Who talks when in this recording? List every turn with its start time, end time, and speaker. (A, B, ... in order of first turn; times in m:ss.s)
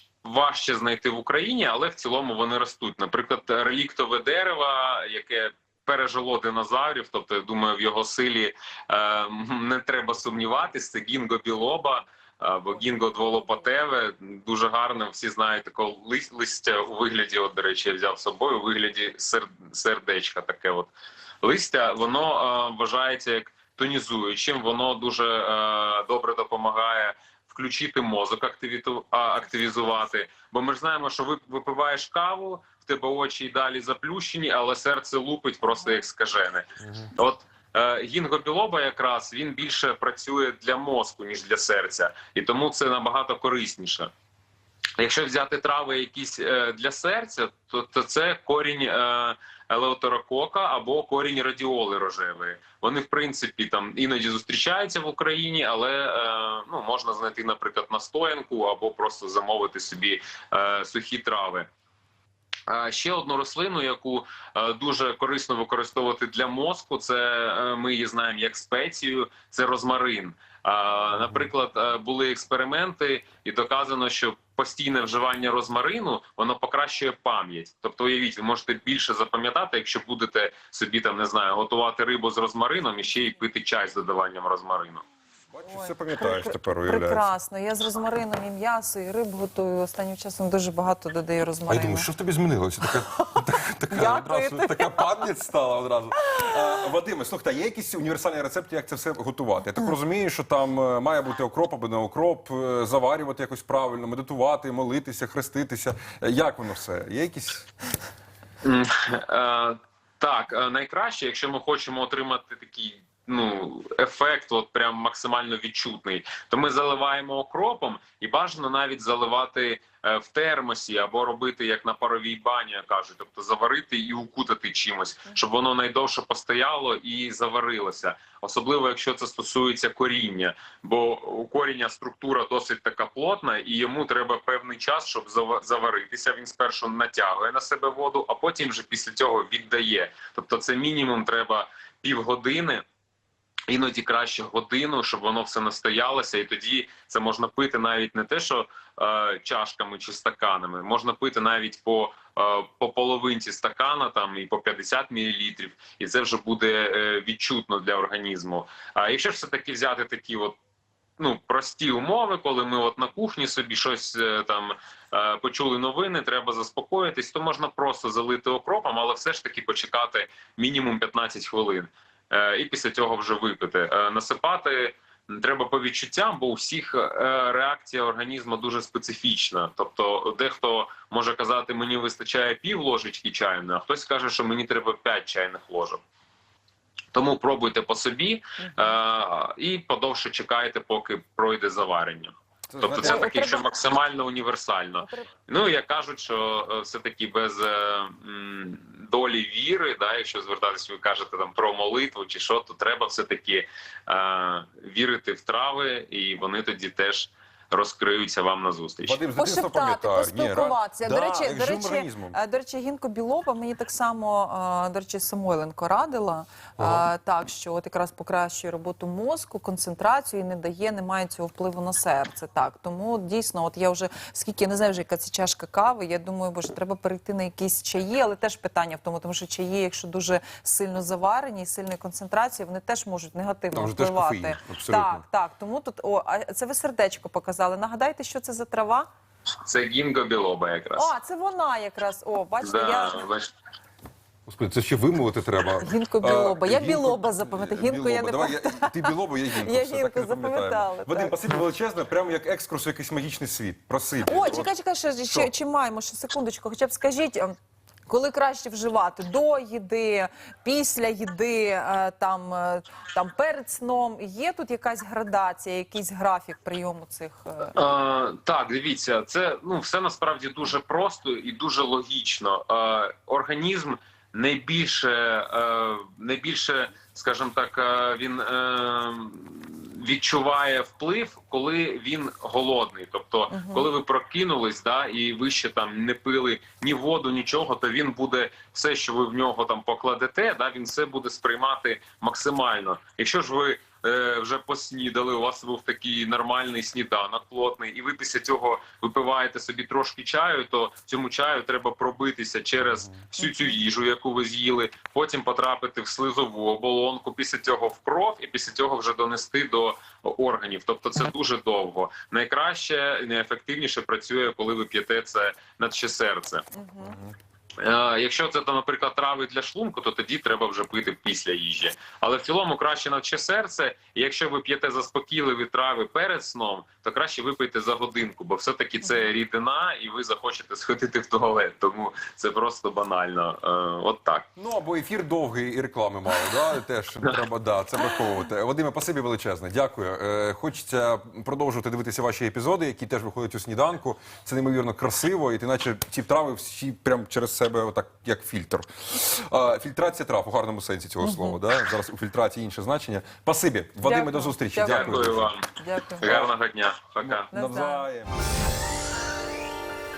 0:00.2-0:44.1 A
0:13.0-0:13.3 B
0:45.0-1:01.7 A
1:02.7-1:25.0 A
1:25.5-1:27.3 C
1:25.7-1:32.1 B
1:31.7-1:47.7 C
1:33.9-1:35.0 B
1:48.6-2:22.8 A
2:23.7-2:40.6 A
2:41.2-3:06.0 A
3:07.1-3:29.2 A
3:08.6-3:09.0 B
3:12.7-3:13.2 C
3:13.0-3:13.7 B
3:15.0-3:15.3 B
3:29.0-3:32.4 C
3:29.4-3:59.1 B
3:36.8-3:37.1 C
3:53.7-3:55.2 C
3:59.6-4:01.1 A
4:01.0-4:03.2 B
4:02.6-4:03.5 A
4:04.5-4:14.7 C
4:05.8-4:11.4 B
4:14.2-4:17.6 B
4:18.1-4:27.7 B
4:27.8-5:16.6 A
4:43.5-4:43.9 B
5:03.4-5:03.8 B
5:16.7-5:17.2 B
5:17.0-5:17.3 C
5:17.8-5:34.5 A
5:34.6-5:55.5 C
5:51.2-5:51.6 B
5:54.0-5:56.5 B
5:54.8-5:55.7 A
5:56.2-5:57.5 A
5:57.2-5:58.5 C
5:57.5-5:58.1 B